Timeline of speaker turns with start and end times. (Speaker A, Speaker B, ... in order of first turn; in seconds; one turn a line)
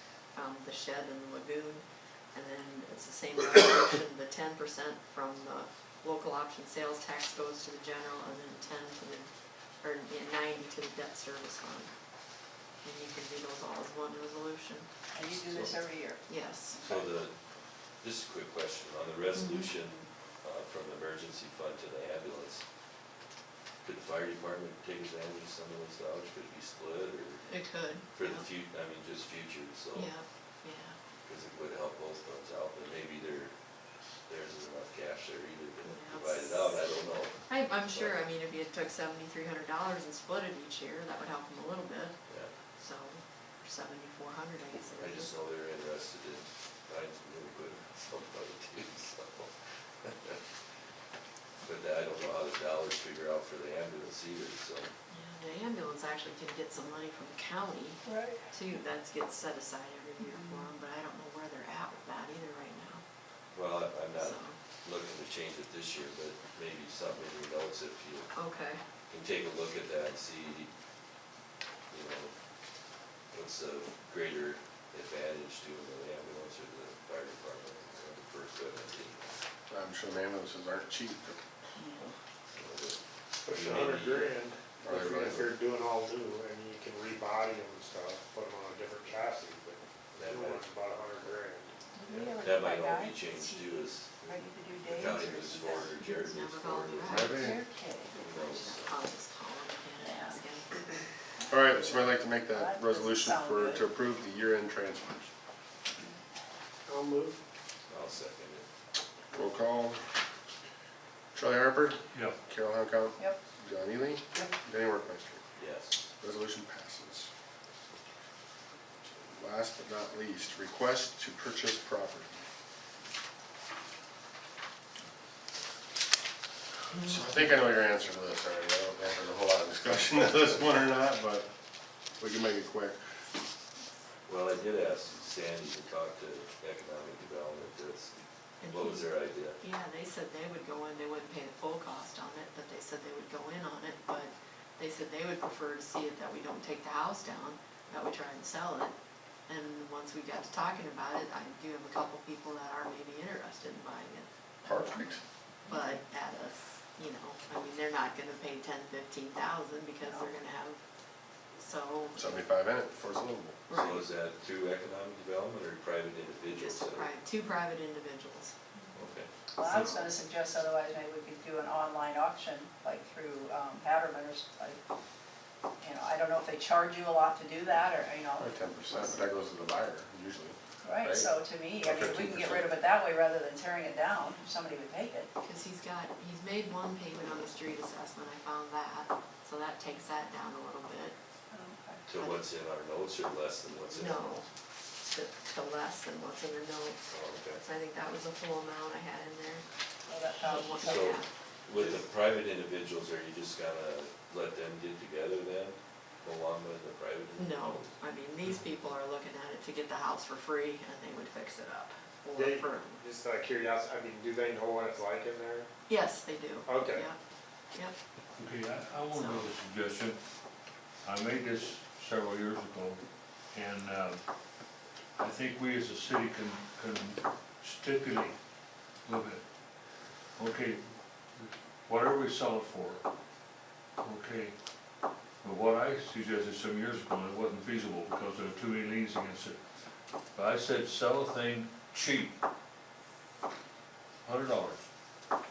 Speaker A: 0.3-11.9
Speaker A: 12.8-14.9
Speaker B: 15.1-16.2
Speaker C: 15.2-15.8
Speaker A: 16.3-16.8
Speaker C: 16.8-17.3
Speaker C: 18.0-22.6
Speaker A: 19.3-19.7
Speaker C: 23.8-27.5
Speaker A: 27.5-28.5
Speaker C: 28.1-30.1
Speaker A: 29.9-31.0
Speaker C: 31.2-33.5
Speaker C: 34.3-38.2
Speaker A: 35.8-36.8
Speaker A: 37.5-42.2
Speaker A: 42.8-45.3
Speaker C: 44.9-50.4
Speaker C: 51.6-54.9
Speaker A: 55.1-63.0
Speaker B: 58.0-58.5
Speaker B: 60.2-60.7
Speaker C: 63.5-68.3
Speaker A: 64.2-64.6
Speaker A: 68.3-68.8
Speaker C: 69.1-70.7
Speaker C: 71.9-72.3
Speaker C: 73.3-79.3
Speaker D: 79.7-81.4
Speaker B: 81.8-82.1
Speaker C: 82.5-84.4
Speaker E: 83.5-91.8
Speaker D: 84.8-85.5
Speaker C: 90.1-91.3
Speaker B: 91.9-96.0
Speaker C: 92.0-94.2
Speaker C: 94.8-97.4
Speaker A: 95.8-97.5
Speaker D: 97.1-97.6
Speaker B: 97.2-98.4
Speaker C: 98.1-99.0
Speaker A: 98.3-100.9
Speaker B: 100.0-100.4
Speaker B: 101.4-103.9
Speaker D: 101.5-105.3
Speaker E: 106.9-107.4
Speaker C: 107.9-108.7
Speaker D: 109.3-110.0
Speaker D: 111.3-115.4
Speaker C: 115.6-116.1
Speaker D: 116.2-117.3
Speaker D: 119.0-122.3
Speaker D: 126.9-131.5
Speaker D: 132.2-133.0
Speaker C: 134.2-138.1
Speaker A: 138.6-148.9
Speaker C: 138.7-139.6
Speaker A: 149.5-154.3
Speaker D: 154.6-155.2
Speaker A: 155.7-160.8
Speaker B: 160.0-160.3
Speaker A: 161.5-162.3
Speaker D: 162.1-163.6
Speaker A: 163.7-164.0
Speaker C: 163.7-167.1
Speaker A: 166.5-168.5
Speaker C: 168.9-169.3
Speaker B: 169.5-174.8
Speaker A: 169.6-170.1
Speaker B: 175.8-179.2
Speaker D: 178.4-181.3
Speaker B: 180.8-185.3
Speaker D: 181.8-182.7
Speaker A: 185.4-191.2
Speaker B: 191.5-192.0
Speaker C: 192.1-194.4
Speaker A: 193.9-194.4
Speaker A: 195.0-197.0
Speaker C: 197.1-197.6
Speaker A: 197.6-199.6
Speaker B: 200.1-201.2
Speaker A: 200.4-201.3
Speaker C: 200.8-207.9
Speaker A: 207.4-213.0
Speaker E: 212.3-215.7
Speaker A: 215.9-217.2
Speaker E: 216.7-217.1
Speaker F: 218.4-220.2
Speaker A: 219.1-219.5
Speaker F: 221.0-223.0
Speaker F: 223.5-224.2
Speaker F: 225.2-228.4
Speaker F: 229.0-229.4
Speaker F: 230.4-230.8
Speaker F: 231.4-233.0
Speaker F: 234.0-234.5
Speaker F: 235.4-239.6
Speaker F: 240.3-242.3
Speaker F: 244.2-244.8